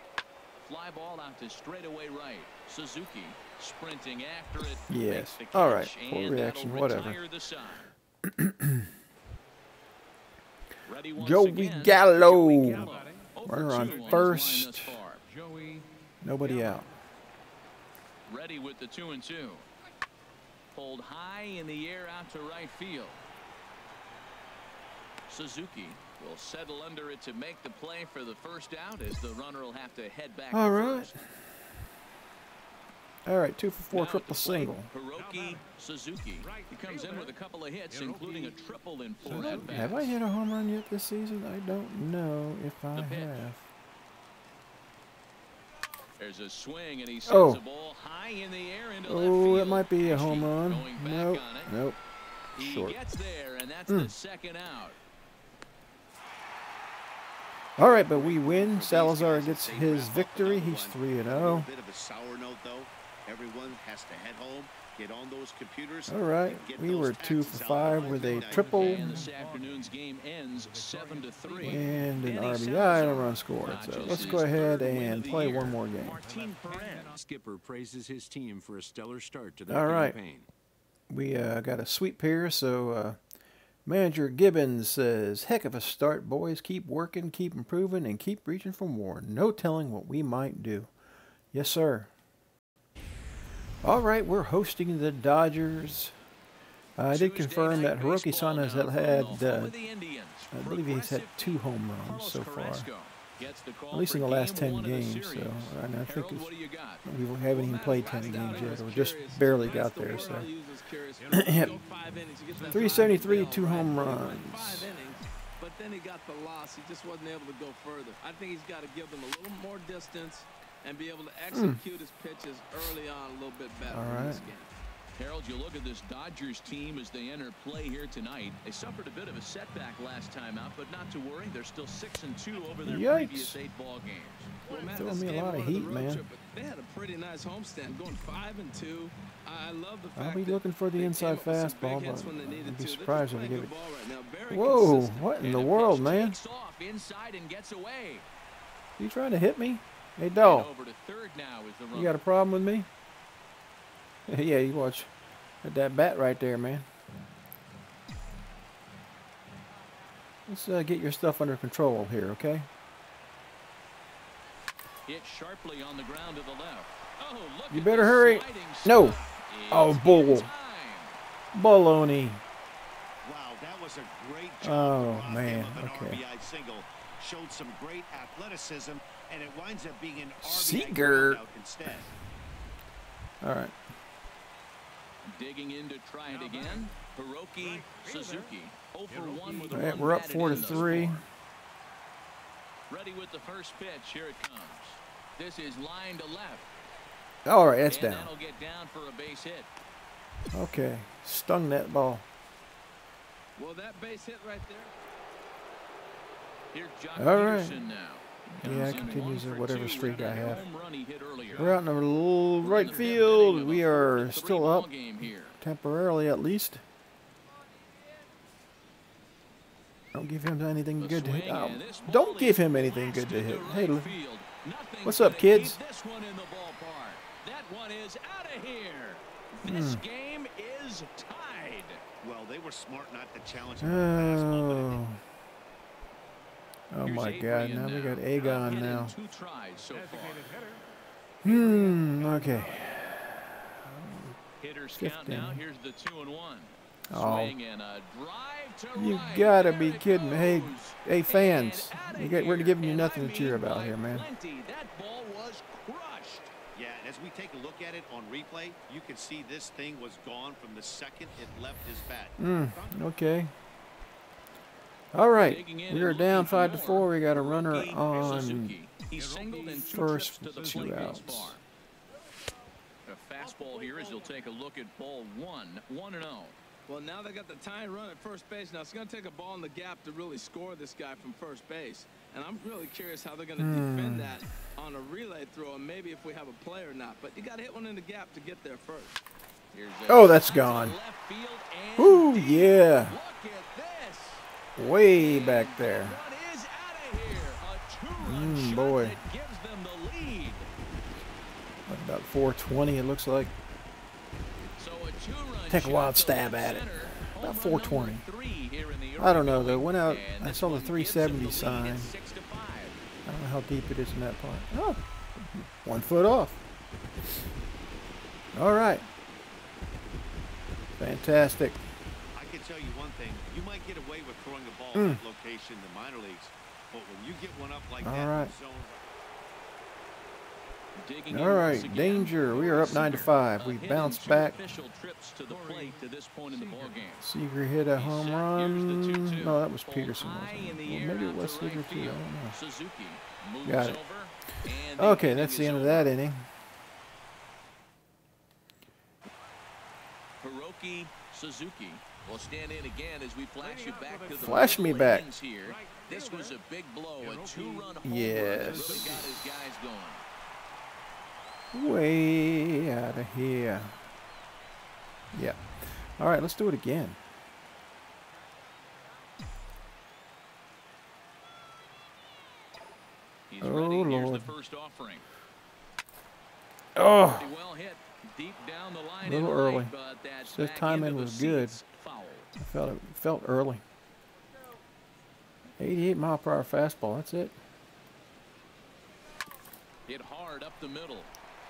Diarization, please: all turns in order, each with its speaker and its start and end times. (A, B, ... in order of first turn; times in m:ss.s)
0:00.6-0:07.9 A
0:04.9-0:07.2 B
0:08.2-0:08.9 B
0:10.8-0:15.3 A
0:11.2-0:12.9 B
0:13.4-0:15.0 B
0:15.4-0:15.9 C
0:16.2-0:16.9 B
0:18.3-0:19.7 A
0:20.7-0:23.2 A
0:25.3-0:31.2 A
0:30.5-0:31.2 B
0:33.3-0:34.9 B
0:33.9-0:40.2 A
0:38.0-0:38.4 C
0:39.2-0:43.6 B
0:42.9-0:43.5 A
0:46.2-0:51.7 A
0:47.3-0:47.6 B
0:49.0-0:52.0 B
0:52.6-0:55.0 A
0:52.6-0:53.0 B
0:57.8-1:01.7 B
0:57.8-1:08.9 D
1:06.1-1:09.3 B
1:08.7-1:17.2 A
1:08.8-1:09.5 C
1:11.1-1:11.5 C
1:11.6-1:16.2 B
1:16.3-1:20.4 C
1:19.7-1:20.2 B
1:21.1-1:23.2 B
1:23.9-1:30.9 B
1:31.5-1:32.1 B
1:33.8-1:36.1 B
1:37.0-1:39.8 B
1:37.1-1:47.0 A
1:40.5-1:42.9 B
1:43.9-1:46.5 B
1:47.0-1:50.5 B
1:47.5-2:04.7 E
1:51.2-1:51.5 C
1:51.3-1:51.7 B
1:52.6-1:52.8 C
1:52.7-1:54.9 B
2:01.5-2:01.8 B
2:03.9-2:04.5 B
2:05.2-2:14.6 A
2:12.8-2:13.6 B
2:14.6-2:25.3 E
2:14.9-2:16.2 B
2:20.2-2:23.7 B
2:24.5-2:26.4 B
2:25.4-2:28.3 A
2:29.0-2:30.7 B
2:30.4-2:32.2 A
2:31.9-2:32.9 B
2:34.3-2:35.1 B
2:35.6-2:36.9 B
2:40.5-2:42.7 B
2:45.1-2:51.2 A
2:47.7-2:50.5 B
2:51.5-2:52.4 B
2:53.2-3:02.1 D
2:54.6-2:56.2 B
3:00.4-3:01.4 B
3:03.4-3:03.8 B
3:05.2-3:11.2 A
3:09.7-3:11.2 B
3:12.9-3:16.7 A
3:17.4-3:18.3 B
3:17.9-3:19.7 A
3:20.5-3:22.3 B
3:23.6-3:24.9 E
3:26.7-3:31.8 A
3:27.2-3:27.8 B
3:28.5-3:30.6 B
3:31.5-3:34.9 B
3:32.6-3:35.6 A
3:35.6-3:36.8 B
3:40.1-3:44.1 B
3:41.0-3:52.0 A
3:45.0-3:45.8 B
3:49.6-3:50.0 B
3:52.2-3:54.9 D
3:53.8-3:55.2 B
3:56.9-3:59.2 B
3:57.0-4:00.5 A
4:01.4-4:04.4 B
4:04.6-4:16.5 A
4:05.0-4:05.6 B
4:07.1-4:07.6 B
4:08.9-4:14.3 B
4:16.7-4:23.0 D
4:22.4-4:23.5 B
4:25.1-4:28.8 B
4:25.4-4:31.6 A
4:29.2-4:29.6 C
4:29.8-4:31.6 B
4:33.1-4:36.6 A
4:36.9-4:49.2 E
4:43.6-4:44.4 B
4:49.7-4:54.5 A
4:50.1-4:51.0 B
4:52.0-4:53.2 B
4:54.8-4:56.2 B
4:55.0-5:00.7 A
4:58.2-4:59.2 B
5:01.9-5:03.5 B
5:04.8-5:13.0 A
5:05.7-5:08.2 B
5:09.2-5:12.1 B
5:13.2-5:16.6 B
5:18.6-5:19.0 B
5:21.0-5:21.8 B
5:22.3-5:29.0 D
5:24.9-5:25.2 B
5:28.0-5:28.5 B
5:31.0-5:37.3 A
5:31.3-5:34.6 B
5:35.5-5:36.0 C
5:37.2-5:42.6 B
5:38.0-5:46.1 A
5:43.6-5:44.0 B
5:45.0-5:46.5 B
5:50.4-6:00.2 A
5:53.9-5:54.4 C
5:54.3-5:55.3 B
5:56.0-5:56.4 C
5:57.4-5:57.8 C
5:58.0-5:59.3 B
6:01.7-6:04.0 B
6:05.3-6:07.2 B
6:13.5-6:15.2 A
6:13.6-6:14.5 B
6:17.0-6:17.5 B
6:17.2-6:22.5 A
6:19.2-6:19.9 B
6:20.5-6:21.8 B
6:22.6-6:23.8 B
6:25.8-6:27.6 B
6:30.1-6:31.3 A